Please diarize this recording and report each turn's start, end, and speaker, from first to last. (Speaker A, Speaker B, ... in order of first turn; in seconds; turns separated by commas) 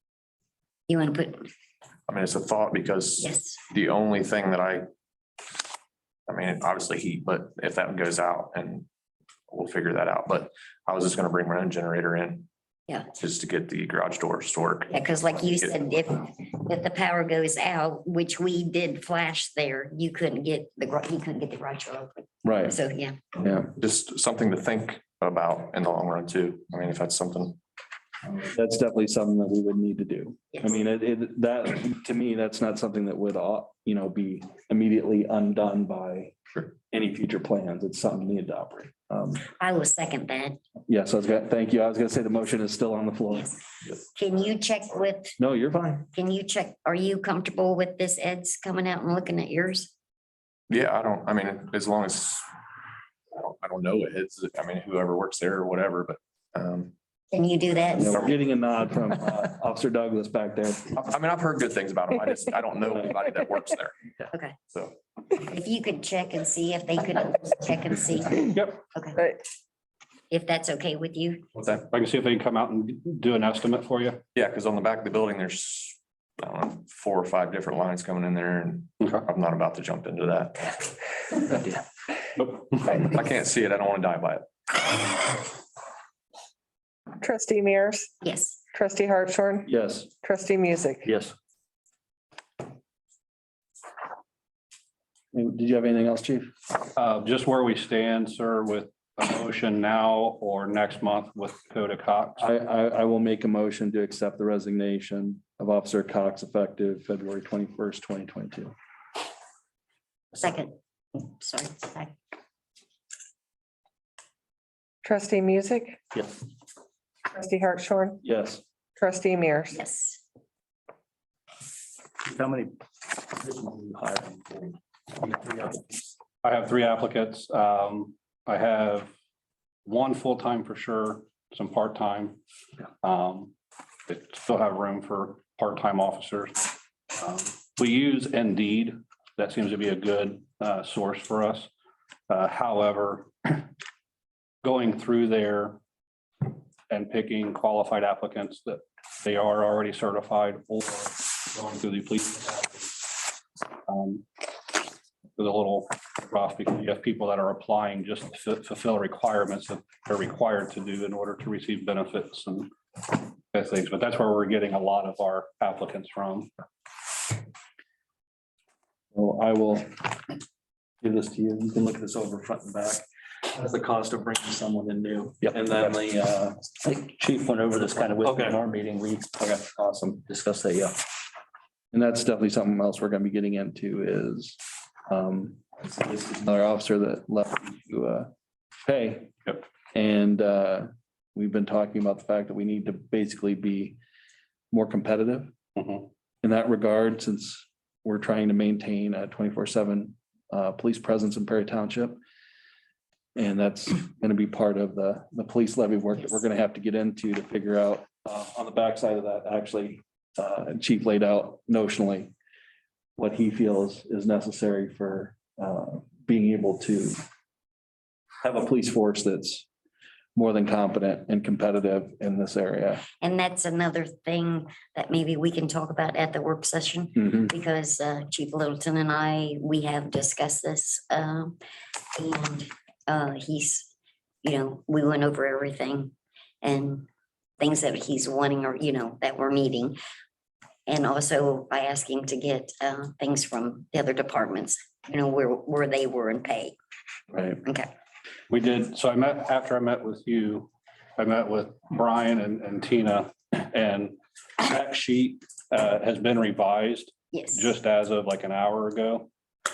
Speaker A: 0.9-1.5, Speaker B: 2.1-4.8, Speaker A: 3.2-3.6, Speaker B: 6.3-8.9, Speaker B: 9.5-12.5, Speaker B: 13.2-15.0, Speaker A: 14.9-23.2, Speaker B: 15.5-15.8, Speaker C: 22.4-22.8, Speaker C: 23.4-23.7, Speaker B: 23.8-27.6, Speaker C: 28.4-39.4, Speaker A: 39.6-40.6, Speaker C: 40.9-43.5, Speaker A: 43.3-43.6, Speaker A: 44.1-45.4, Speaker C: 45.4-46.1, Speaker A: 46.1-49.9, Speaker B: 50.7-52.5, Speaker B: 53.3-56.9, Speaker A: 57.3-58.4, Speaker C: 58.0-61.0, Speaker B: 61.0-64.1, Speaker A: 64.3-64.6, Speaker B: 64.7-65.0, Speaker A: 65.4-69.2, Speaker A: 70.3-71.5, Speaker D: 71.6-74.2, Speaker B: 74.3-80.8, Speaker D: 79.0-79.3, Speaker D: 82.4-82.8, Speaker B: 82.9-84.5, Speaker E: 87.2-88.1, Speaker A: 88.2-88.6, Speaker E: 88.7-89.7, Speaker C: 89.7-90.1, Speaker E: 90.2-91.1, Speaker C: 95.3-96.5, Speaker D: 97.0-102.4, Speaker C: 102.4-108.7, Speaker A: 110.3-112.2, Speaker E: 115.0-116.0, Speaker E: 117.3-118.2, Speaker C: 118.2-118.6, Speaker E: 119.0-119.8, Speaker A: 119.7-120.2, Speaker F: 122.3-122.7, Speaker F: 123.4-124.4, Speaker F: 125.3-125.8, Speaker D: 126.4-129.1, Speaker D: 129.8-132.4, Speaker D: 133.0-133.5, Speaker D: 134.1-141.7, Speaker D: 142.3-143.7, Speaker D: 144.6-145.8, Speaker D: 146.4-153.3, Speaker D: 153.9-154.8, Speaker D: 155.4-166.5, Speaker C: 169.1-170.1, Speaker C: 171.0-176.6, Speaker F: 175.4-176.0, Speaker F: 176.8-179.4, Speaker C: 178.2-178.6, Speaker C: 179.4-180.2, Speaker F: 180.2-181.0, Speaker C: 181.9-189.4, Speaker C: 189.9-194.0, Speaker C: 194.7-195.5, Speaker D: 195.8-196.1, Speaker C: 196.4-202.2, Speaker C: 203.4-212.3, Speaker C: 213.2-217.2, Speaker C: 218.4-219.7, Speaker C: 220.3-223.0, Speaker A: 223.2-231.6, Speaker A: 232.2-233.9, Speaker A: 234.4-237.1, Speaker A: 237.6-240.0, Speaker A: 240.9-246.8, Speaker C: 247.3-247.6, Speaker A: 247.6-247.9, Speaker D: 248.5-259.3, Speaker A: 257.3-257.7